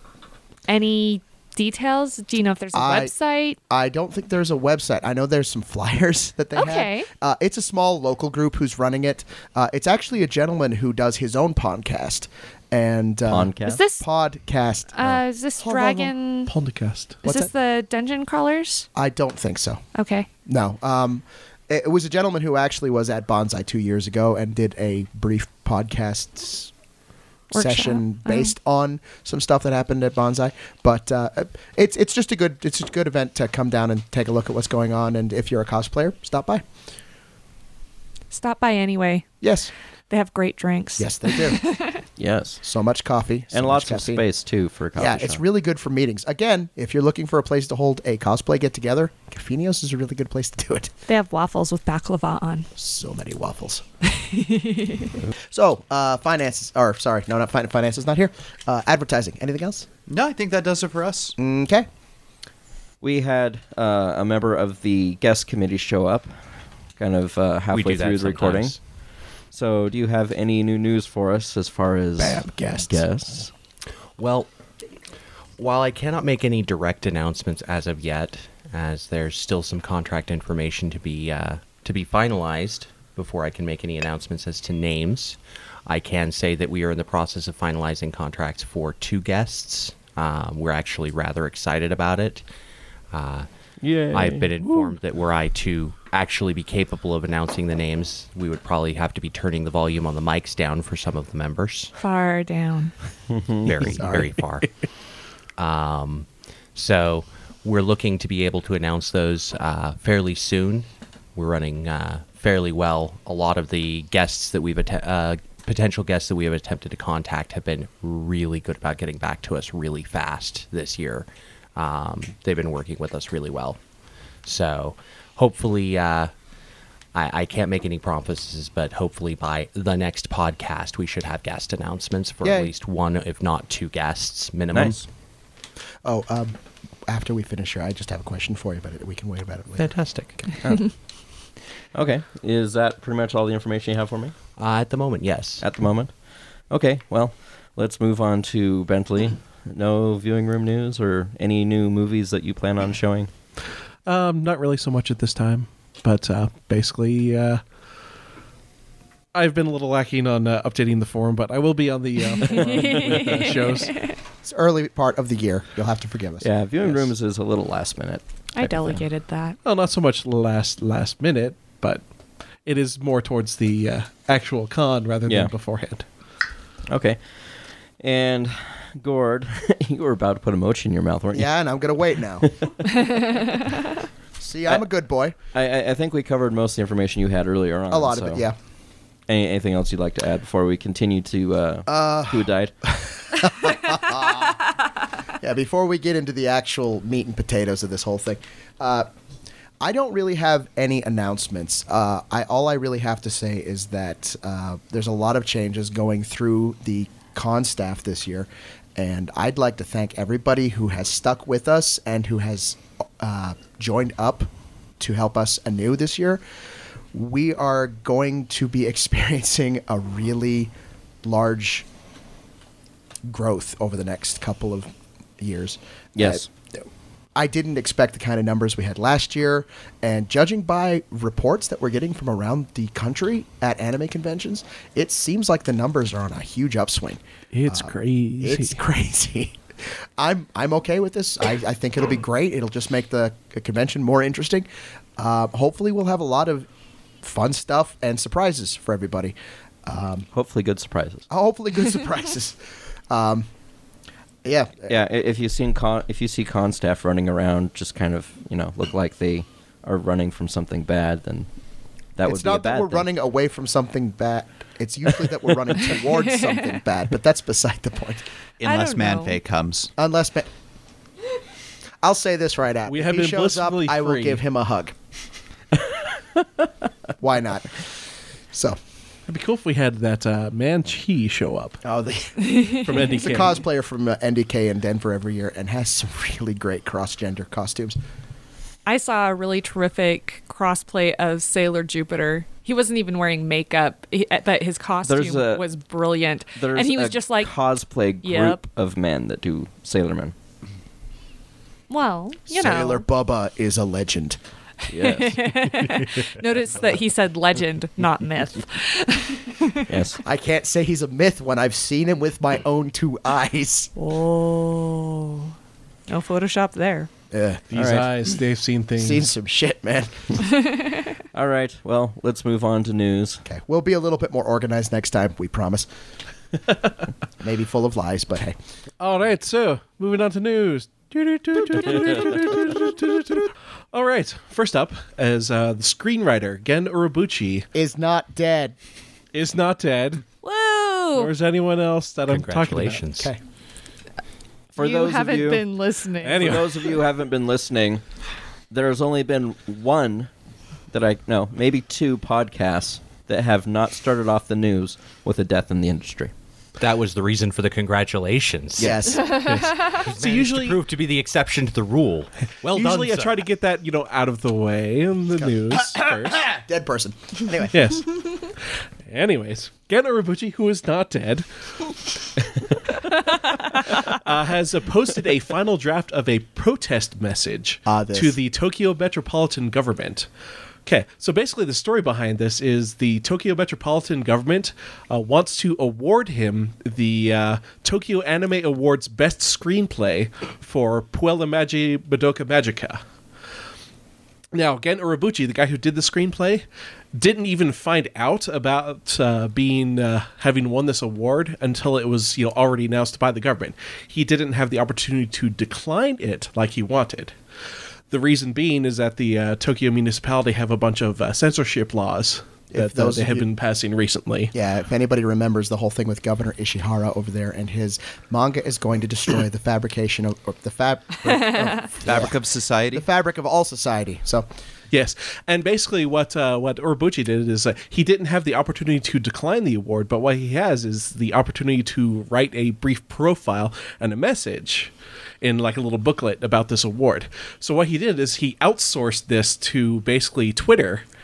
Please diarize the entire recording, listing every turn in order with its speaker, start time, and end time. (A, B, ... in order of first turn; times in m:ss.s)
0:00.7-0:03.6 A
0:02.7-0:03.1 B
0:03.7-0:16.1 B
0:06.6-0:07.1 A
0:13.3-0:13.8 C
0:13.6-0:14.0 A
0:14.9-0:16.5 A
0:16.5-0:17.2 D
0:17.2-0:18.9 A
0:17.2-0:17.5 B
0:19.0-0:19.8 B
0:20.0-0:20.3 A
0:20.5-0:26.7 B
0:27.5-0:28.5 A
0:27.5-0:36.6 B
0:38.3-0:39.3 A
0:39.4-0:39.7 B
0:40.1-0:42.0 A
0:41.0-0:41.6 B
0:42.2-0:42.6 C
0:42.6-0:44.2 B
0:43.5-0:45.4 C
0:45.0-0:50.9 B
0:51.1-0:52.7 A
0:52.8-0:53.8 B
0:54.1-0:55.2 A
0:55.5-0:59.9 B
1:00.1-1:01.4 E
1:01.4-1:01.9 B
1:03.0-1:06.3 C
1:07.0-1:08.8 C
1:07.7-1:08.8 F
1:09.5-1:13.5 C
1:12.2-1:13.0 B
1:14.2-1:14.5 F
1:15.6-1:32.4 F
1:33.1-1:33.5 F
1:33.8-1:34.9 C
1:34.1-1:41.9 F
1:42.0-1:42.9 A
1:43.3-1:44.2 C
1:43.6-1:44.7 F
1:44.0-1:44.3 B
1:45.6-2:03.8 F
2:04.4-2:06.3 F
2:07.1-2:15.0 F
2:12.4-2:12.7 B
2:14.7-2:15.0 C
2:16.0-2:19.9 B
2:19.8-2:20.4 F
2:20.6-2:20.9 C
2:21.9-2:24.3 C
2:24.6-2:25.6 F
2:25.6-2:26.1 C
2:26.7-2:33.3 C
2:34.1-2:37.6 D
2:39.3-2:44.0 D
2:42.4-2:44.1 A
2:44.4-2:47.1 B
2:46.4-2:49.0 C
2:48.6-2:49.6 A
2:49.6-2:52.0 D
2:52.6-2:56.1 D
2:55.3-2:55.5 C
2:56.9-2:57.2 C
2:58.0-3:01.5 C
3:01.3-3:02.5 B
3:04.4-3:05.4 B
3:05.5-3:08.5 C
3:07.9-3:08.6 B
3:09.3-3:12.7 C
3:11.9-3:14.6 B
3:15.4-3:19.1 B
3:19.8-3:36.4 B
3:37.1-3:40.7 B
3:41.2-3:41.9 B
3:43.3-3:46.8 B
3:46.2-3:46.5 C
3:47.4-3:59.6 B
3:57.5-3:58.8 D
4:00.2-4:06.7 B
4:07.2-4:10.3 B
4:10.3-4:11.3 C
4:11.3-4:13.5 B
4:14.4-4:15.0 B
4:14.9-4:21.5 C
4:22.2-4:23.1 C
4:22.2-4:28.2 B
4:28.6-4:29.9 E
4:28.6-4:29.4 A
4:30.0-4:30.5 B
4:32.0-4:35.0 B
4:32.9-4:34.4 D
4:37.2-4:37.8 B
4:38.5-4:38.8 B
4:39.3-4:41.8 D
4:41.8-4:48.0 B
4:42.4-4:43.0 A
4:42.7-4:43.6 D
4:48.9-4:57.5 A
4:55.0-4:55.7 C
4:56.6-5:00.3 C
4:58.2-4:58.6 A
5:01.9-5:03.1 A
5:02.5-5:04.4 B
5:04.9-5:05.8 C
5:05.0-5:09.9 A
5:09.9-5:10.2 C
5:10.2-5:13.9 B
5:14.0-5:15.5 A
5:16.1-5:17.1 A
5:17.3-5:17.9 B
5:17.7-5:19.3 D
5:17.8-5:18.1 C
5:19.0-5:20.4 B
5:21.3-5:23.4 C
5:23.4-5:25.9 B
5:27.4-5:28.6 B
5:29.0-5:37.7 D
5:37.7-5:38.8 B
5:39.3-5:40.2 D
5:40.4-5:41.3 A
5:41.1-5:43.0 D
5:42.3-5:43.3 F
5:44.8-5:45.7 C
5:44.8-5:46.7 A
5:46.2-5:47.0 D
5:46.4-5:48.0 C
5:48.7-5:50.3 C
5:50.9-5:56.3 C
5:56.8-6:03.4 F
5:58.8-5:59.6 B
5:59.4-6:00.8 D
6:02.7-6:06.4 D
6:05.7-6:08.0 B
6:07.7-6:08.5 D
6:09.0-6:11.5 D
6:13.3-6:20.3 D
6:17.9-6:18.4 B
6:20.9-6:33.0 D
6:34.5-6:47.4 D
6:48.1-6:54.5 D
6:52.7-6:53.4 B
6:54.5-7:02.4 B
7:02.0-7:03.0 E
7:02.9-7:04.5 B
7:04.9-7:21.0 D